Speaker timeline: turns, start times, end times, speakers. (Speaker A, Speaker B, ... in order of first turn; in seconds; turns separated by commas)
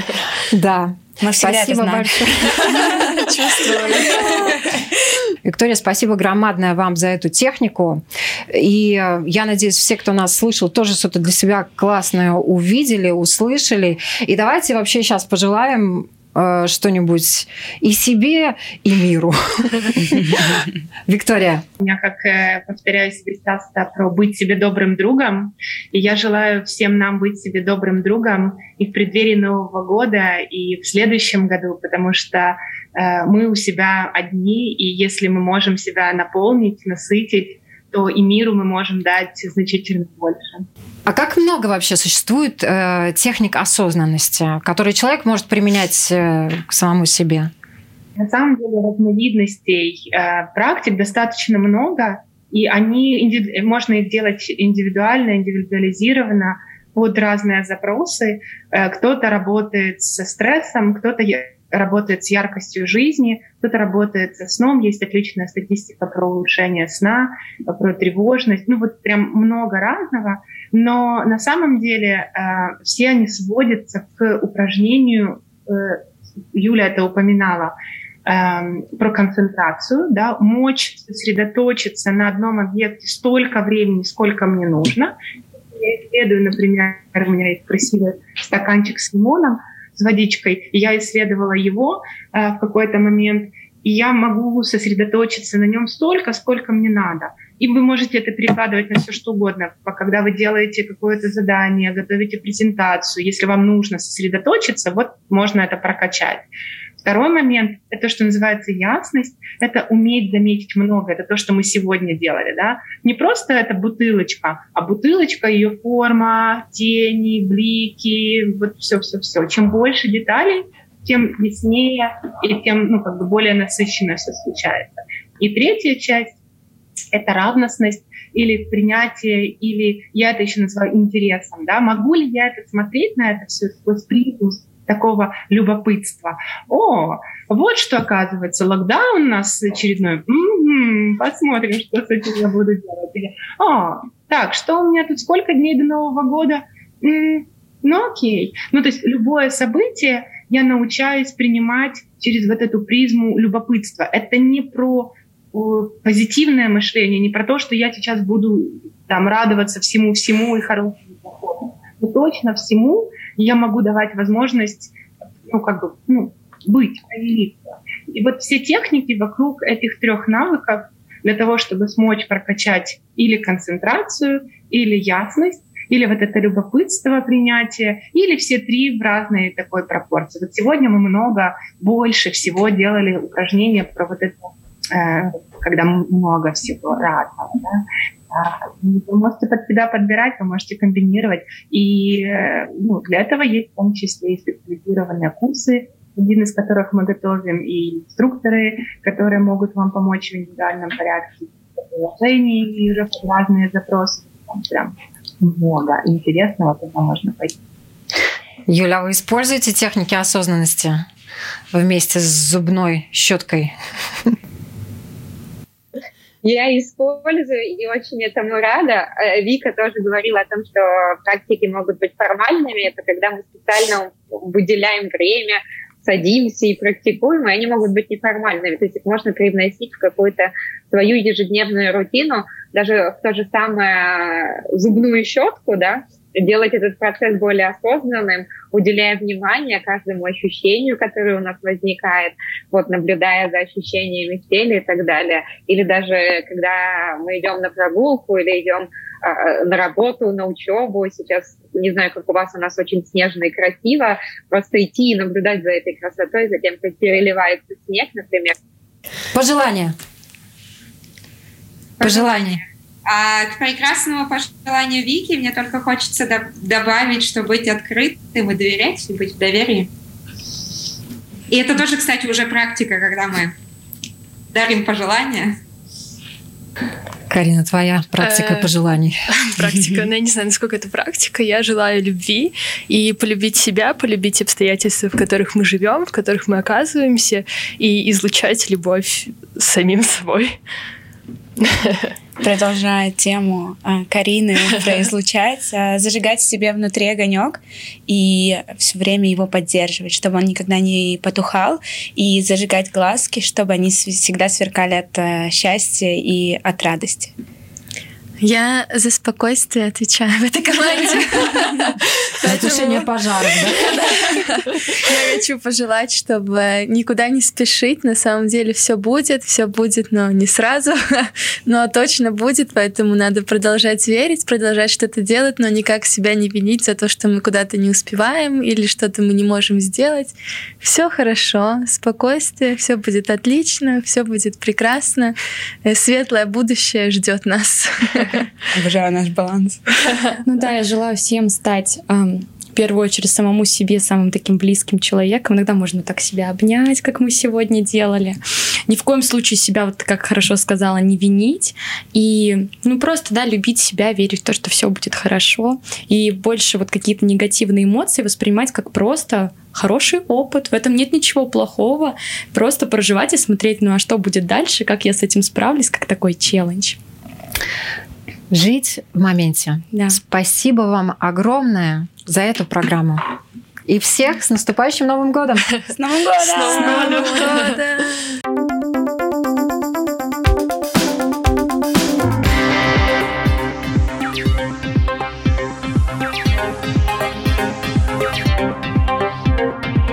Speaker A: 0.5-3.1, Speaker B: 1.2-4.1, Speaker C: 3.7-4.2, Speaker A: 5.4-21.6, Speaker D: 21.8-40.6, Speaker A: 41.0-47.5, Speaker D: 48.2-77.7, Speaker D: 78.2-106.5, Speaker D: 107.0-126.3, Speaker D: 127.1-164.9, Speaker D: 165.5-207.6, Speaker A: 208.7-211.1, Speaker A: 211.7-214.3, Speaker E: 216.4-258.6, Speaker A: 259.3-259.9, Speaker F: 262.0-262.3, Speaker A: 262.0-262.6, Speaker F: 263.0-269.9, Speaker F: 271.5-273.5, Speaker F: 274.5-275.6, Speaker A: 277.3-279.3, Speaker C: 278.2-278.7, Speaker C: 279.4-290.6, Speaker C: 291.7-292.1, Speaker B: 292.4-307.3, Speaker G: 308.4-313.1, Speaker A: 312.4-313.9, Speaker G: 313.7-338.4, Speaker B: 338.7-339.8, Speaker H: 340.4-367.0, Speaker A: 368.5-373.2, Speaker A: 373.9-375.7, Speaker B: 375.9-377.4, Speaker G: 376.6-378.1, Speaker C: 376.7-377.2